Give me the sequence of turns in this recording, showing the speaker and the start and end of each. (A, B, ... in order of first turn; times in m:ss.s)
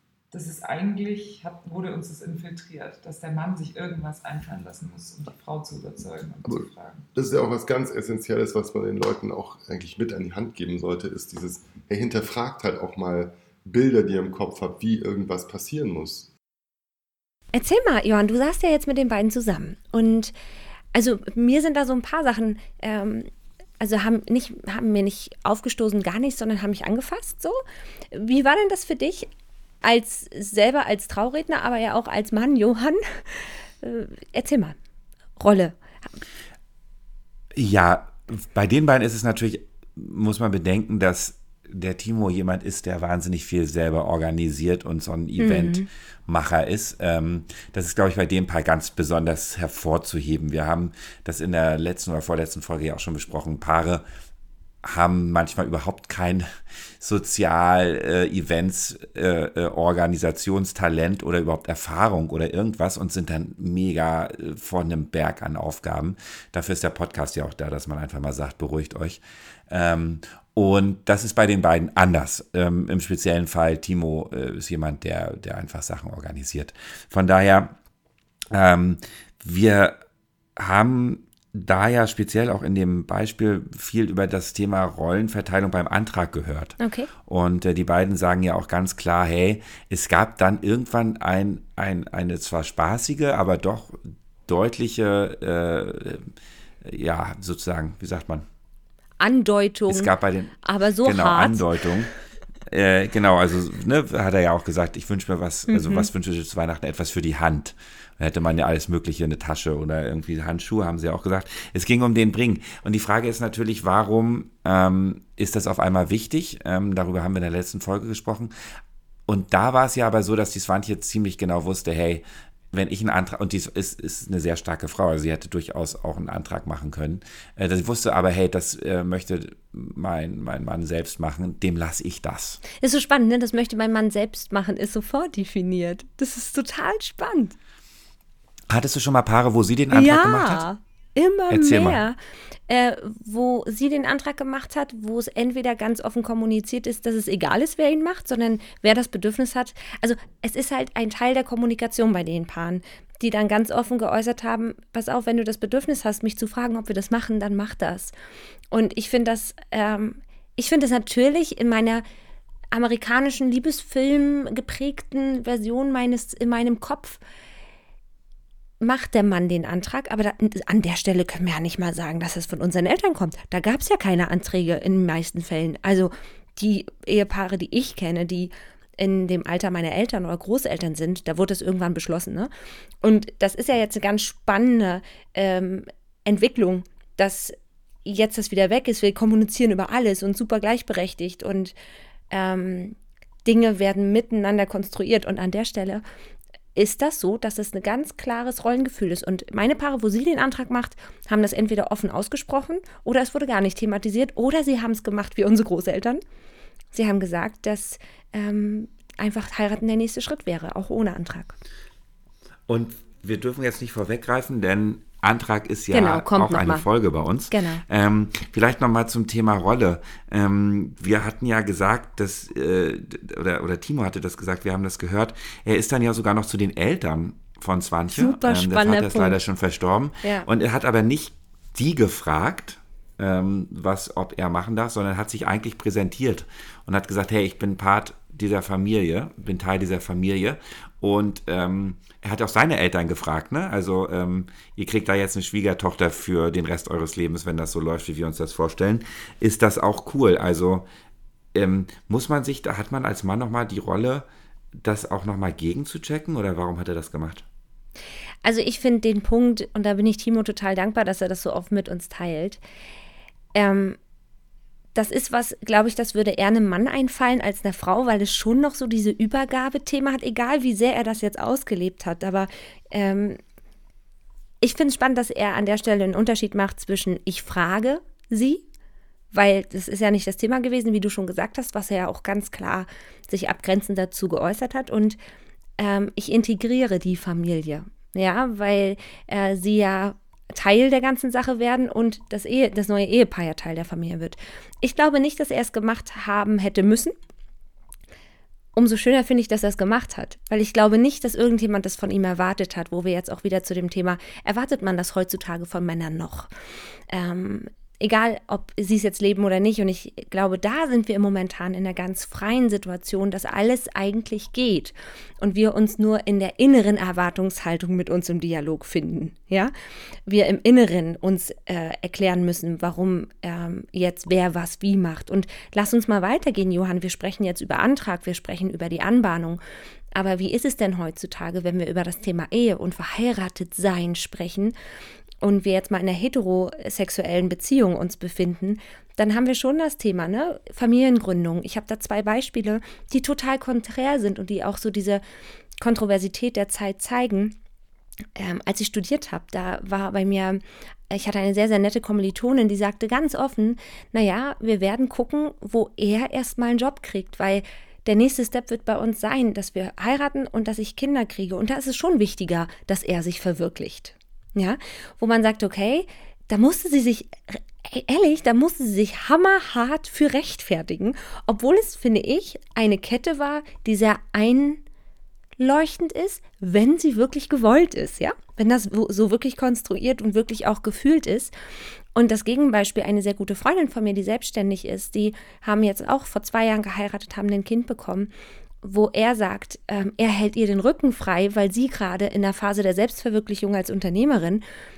0:00.3-0:07.0 A
0:06.4-0:16.3 B
0:17.5-0:20.3 C
0:20.9-0:23.3 C
0:23.8-0:27.6 C
0:28.1-0:29.3 C
0:29.8-0:34.8 C
0:35.4-0:35.8 C
0:37.6-0:54.0 D
0:45.4-0:45.9 C
0:54.8-0:56.5 D
0:57.0-1:17.7 D
1:18.5-1:20.0 D
1:20.6-1:36.3 D
1:26.8-1:27.1 C
1:36.8-1:38.5 D
1:39.2-1:40.1 C
1:39.9-1:42.1 D
1:40.6-1:41.7 C
1:42.7-1:58.5 D
1:45.7-1:46.1 C
1:59.3-2:12.6 D
2:12.8-2:17.6 C
2:18.7-2:20.7 D
2:19.9-2:22.2 C
2:21.5-2:22.1 D
2:22.7-2:38.1 C
2:38.7-2:42.0 C
2:42.7-2:47.2 C
2:48.8-3:02.5 C
3:03.0-3:11.7 C
3:12.3-3:16.0 C
3:16.8-3:26.2 C
3:26.9-3:31.6 C
3:32.7-4:10.9 D
3:35.9-3:36.9 C
3:37.5-3:37.8 C
3:48.1-3:49.4 C
4:11.5-4:14.3 D
4:14.8-4:17.5 D
4:18.4-4:22.6 C
4:23.6-4:24.0 C
4:25.0-4:33.4 C
4:34.6-4:38.6 C
4:39.3-4:45.2 C
4:45.8-4:57.2 C
4:58.7-5:06.5 C
5:07.1-5:19.7 C
5:20.3-5:29.6 C
5:30.1-5:34.8 C
5:35.4-5:45.2 C
5:45.8-5:47.6 C
5:48.4-6:14.8 C
6:15.6-6:21.6 C
6:22.2-6:28.3 C
6:28.8-6:34.6 C